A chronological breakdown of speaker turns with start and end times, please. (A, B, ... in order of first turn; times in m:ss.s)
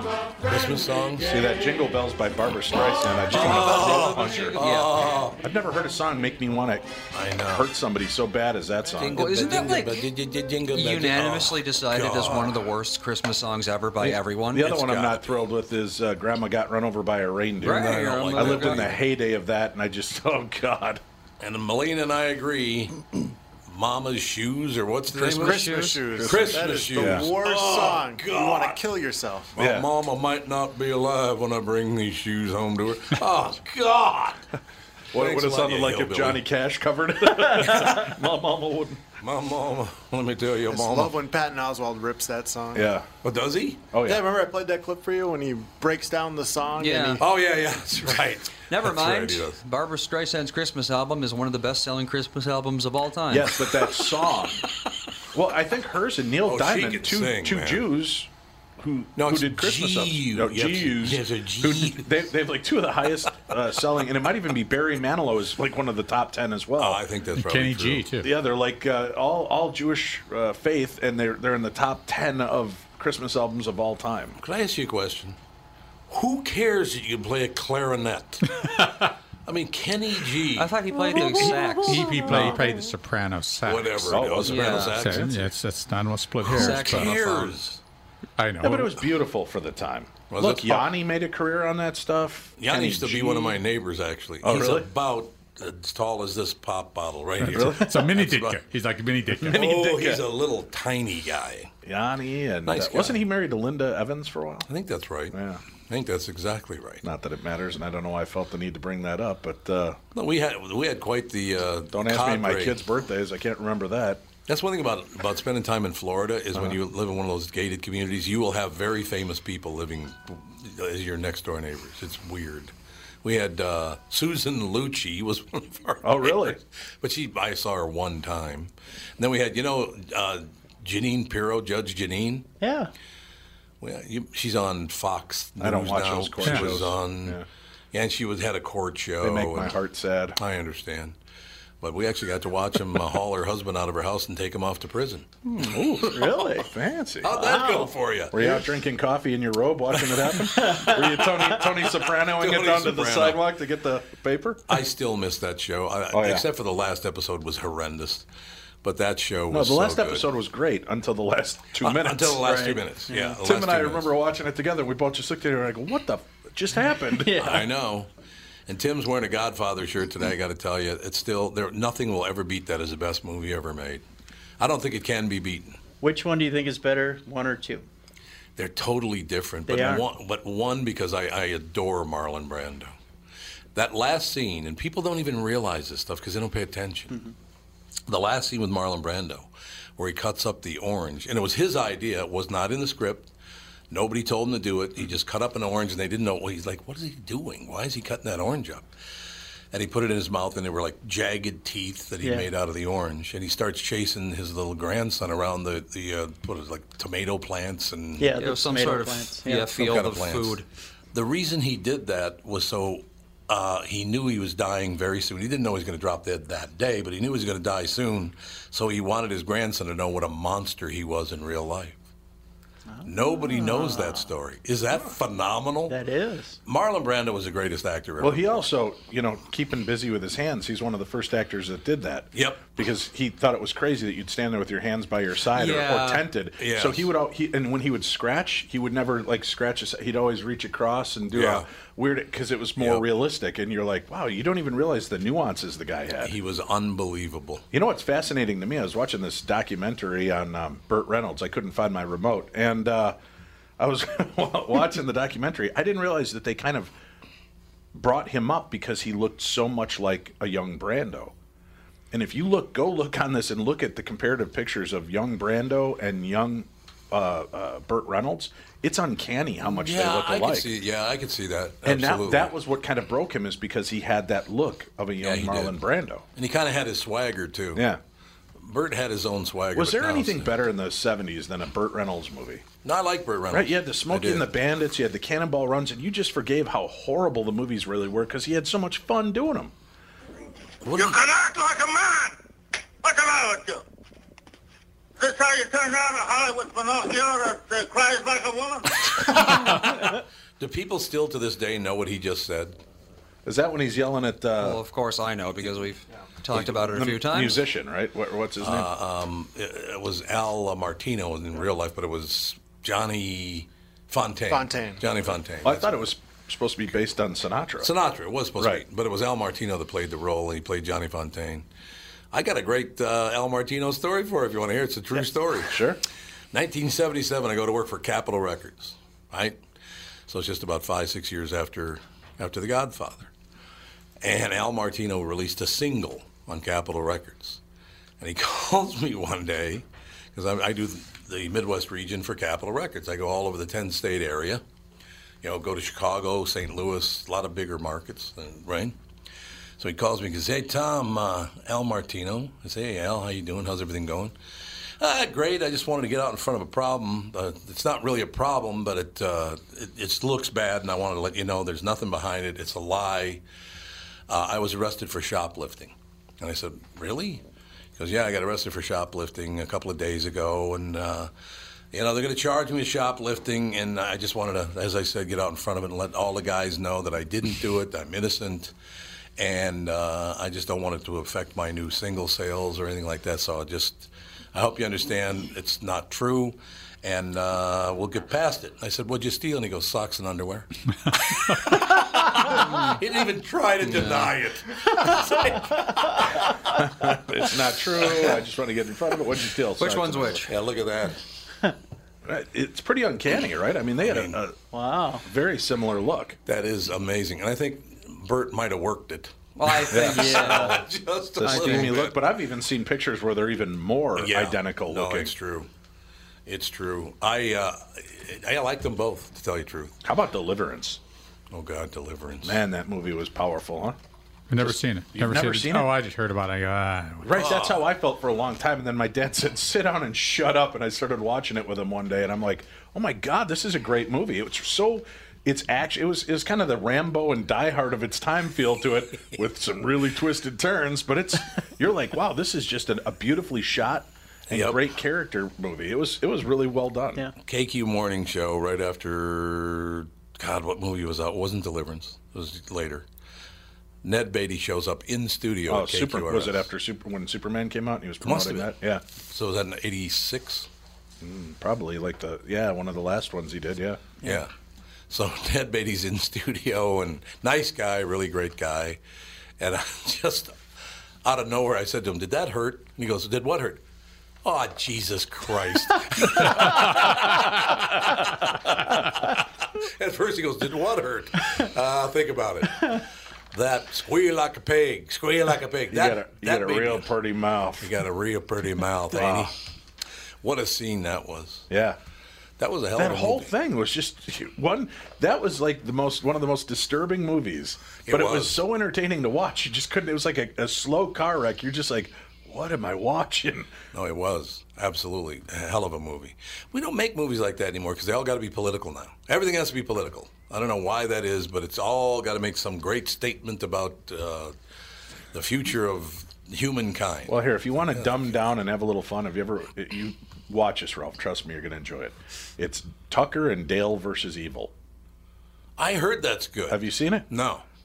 0:00.4-0:01.4 A
0:01.2-0:04.6 B
0:03.3-0:04.9 C
0:03.3-0:05.4 A
0:05.4-0:06.9 B
0:07.1-0:07.7 A
0:07.5-0:09.3 B
0:09.0-0:12.7 A
0:09.2-0:10.0 C
0:10.7-0:14.8 C
0:14.0-0:21.0 B
0:14.6-0:15.3 A
0:17.6-0:19.0 C
0:17.6-0:19.0 A
0:21.4-0:28.8 A
0:25.2-0:26.0 C
0:25.2-0:29.5 D
0:26.2-0:27.3 B
0:29.6-0:34.4 A
0:29.6-0:29.9 B
0:35.1-0:39.0 B
0:35.1-0:36.4 A
0:37.6-0:38.1 A
0:39.2-0:41.1 A
0:40.7-0:42.9 D
0:42.8-0:43.1 B
0:43.2-0:43.9 A
0:43.9-0:44.3 B
0:44.0-0:47.2 D
0:46.8-0:47.2 C
0:47.2-0:49.6 A
0:48.7-0:53.6 C
0:53.3-0:54.6 B
0:55.3-1:07.0 B
0:56.4-0:57.9 A
0:59.2-1:02.1 A
1:06.8-1:08.0 A
1:07.4-1:08.3 E
1:08.2-1:14.4 B
1:14.4-1:15.4 A
1:16.1-1:18.6 A
1:18.6-1:19.0 E
1:19.5-1:20.7 A
1:20.6-1:22.3 C
1:21.8-1:27.2 E
1:22.2-1:22.6 B
1:23.6-1:25.4 A
1:24.1-1:25.3 B
1:24.5-1:25.0 C
1:26.4-1:27.8 A
1:26.5-1:27.6 C
1:28.4-1:28.9 E
1:28.6-1:33.6 B
1:30.3-1:30.9 A
1:32.6-1:38.6 A
1:34.4-1:34.9 B
1:37.4-1:39.6 E
1:37.4-1:38.1 B
1:39.4-1:40.3 B
1:39.5-1:41.7 A
1:41.8-1:44.7 B
1:42.7-1:43.2 A
1:44.7-1:45.4 A
1:45.3-1:45.6 B
1:45.9-1:47.0 A
1:47.0-1:50.0 B
1:50.2-1:52.8 A
1:51.9-1:54.3 B
1:54.5-2:02.7 A
2:03.2-2:12.5 A
2:06.0-2:06.6 B
2:12.6-2:12.9 F
2:13.8-2:17.4 A
2:15.6-2:17.5 B
2:16.4-2:16.7 E
2:17.9-2:19.8 A
2:19.2-2:20.4 B
2:20.4-2:21.2 A
2:21.8-2:25.3 A
2:25.6-2:27.5 B
2:26.0-2:26.7 F
2:27.2-2:28.7 A
2:27.3-2:27.9 F
2:28.3-2:34.8 B
2:30.0-2:31.0 A
2:30.7-2:31.0 F
2:31.6-2:33.5 A
2:34.7-2:38.3 A
2:36.1-2:36.5 B
2:38.8-2:40.3 A
2:39.5-2:42.5 B
2:41.8-2:44.1 A
2:42.4-2:43.4 F
2:43.3-2:47.6 B
2:47.2-2:47.6 F
2:47.4-2:48.1 A
2:48.7-2:54.0 A
2:54.6-2:55.8 A
2:56.0-2:57.9 F
2:58.6-3:02.9 A
2:59.7-3:00.0 F
3:03.8-3:07.2 A
3:08.1-3:13.3 A
3:13.9-3:18.9 A
3:19.7-3:28.3 A
3:22.2-3:22.5 F
3:28.2-3:29.7 F
3:28.4-3:30.6 C
3:29.7-3:30.6 A
3:31.1-3:42.0 A
3:42.9-3:44.3 F
3:43.0-3:46.0 A
3:45.9-3:46.6 F
3:46.7-3:48.6 A
3:48.2-4:06.4 B
3:52.3-3:52.7 A
3:55.5-3:56.3 C
3:56.6-3:57.1 A
4:01.3-4:01.7 A
4:02.8-4:03.1 A
4:06.2-4:07.6 A
4:07.7-4:13.2 B
4:13.8-4:16.9 B
4:17.9-4:21.3 B
4:22.1-4:30.7 B
4:29.6-4:32.5 A
4:31.8-4:36.2 B
4:35.2-4:35.8 A
4:36.4-4:37.9 A
4:37.8-4:38.0 B
4:38.6-4:40.5 A
4:39.7-4:42.7 B
4:42.8-4:44.5 A
4:43.5-4:49.7 B
4:50.8-4:51.2 A
4:50.9-4:52.3 G
4:53.0-4:53.8 G
4:55.2-4:59.4 G
4:59.2-5:02.8 A
5:03.4-5:04.8 B
5:04.6-5:07.6 C
5:06.5-5:08.9 B
5:08.6-5:16.0 A
5:14.5-5:15.0 D
5:15.6-5:17.9 B
5:17.8-5:21.7 A
5:18.6-5:18.8 B
5:22.3-5:25.8 A
5:25.6-5:26.0 B
5:26.5-5:29.6 A
5:30.3-5:33.3 A
5:34.2-5:37.6 A
5:38.2-5:44.6 A
5:45.4-5:49.0 A
5:49.8-5:54.3 A
5:55.0-6:03.4 A
6:04.3-6:07.4 A
6:08.0-6:11.3 A
6:11.9-6:18.7 A
6:19.4-6:36.3 A
6:33.9-6:34.3 C
6:36.8-6:40.4 B
6:38.0-6:38.3 A
6:39.8-6:40.5 C
6:40.5-6:41.2 A
6:42.2-6:44.6 B
6:44.0-6:44.4 A
6:44.7-6:45.2 F
6:45.2-6:46.4 B
6:46.5-6:52.2 A
6:49.6-6:50.8 C
6:49.9-6:50.4 B
6:50.2-6:50.8 F
6:51.4-6:55.3 B
6:51.4-6:52.0 C
6:54.2-6:55.7 A
6:56.5-6:59.9 A
7:00.0-7:01.0 B
7:01.5-7:02.6 A
7:02.4-7:04.0 B
7:04.5-7:07.3 E
7:04.6-7:05.9 B
7:07.2-7:27.3 B
7:07.3-7:07.9 A
7:24.5-7:24.8 A
7:27.4-7:33.0 A
7:34.0-7:36.7 A
7:35.7-7:39.0 B
7:38.2-7:38.7 A
7:39.3-7:40.7 A
7:41.2-7:44.4 B
7:44.2-7:44.5 A
7:45.1-7:49.0 A
7:49.6-7:50.5 A
7:51.2-7:53.8 A
7:54.4-8:07.1 A
8:05.9-8:08.0 B
8:07.8-8:09.6 A
8:09.1-8:09.5 B
8:10.4-8:11.7 A
8:11.7-8:12.0 B
8:12.6-8:13.5 A
8:13.0-8:23.7 B
8:18.0-8:18.6 A
8:23.9-8:34.5 A
8:35.3-8:37.4 A
8:37.3-8:44.7 B
8:37.9-8:38.4 A
8:45.8-8:47.6 A
8:46.7-8:47.3 B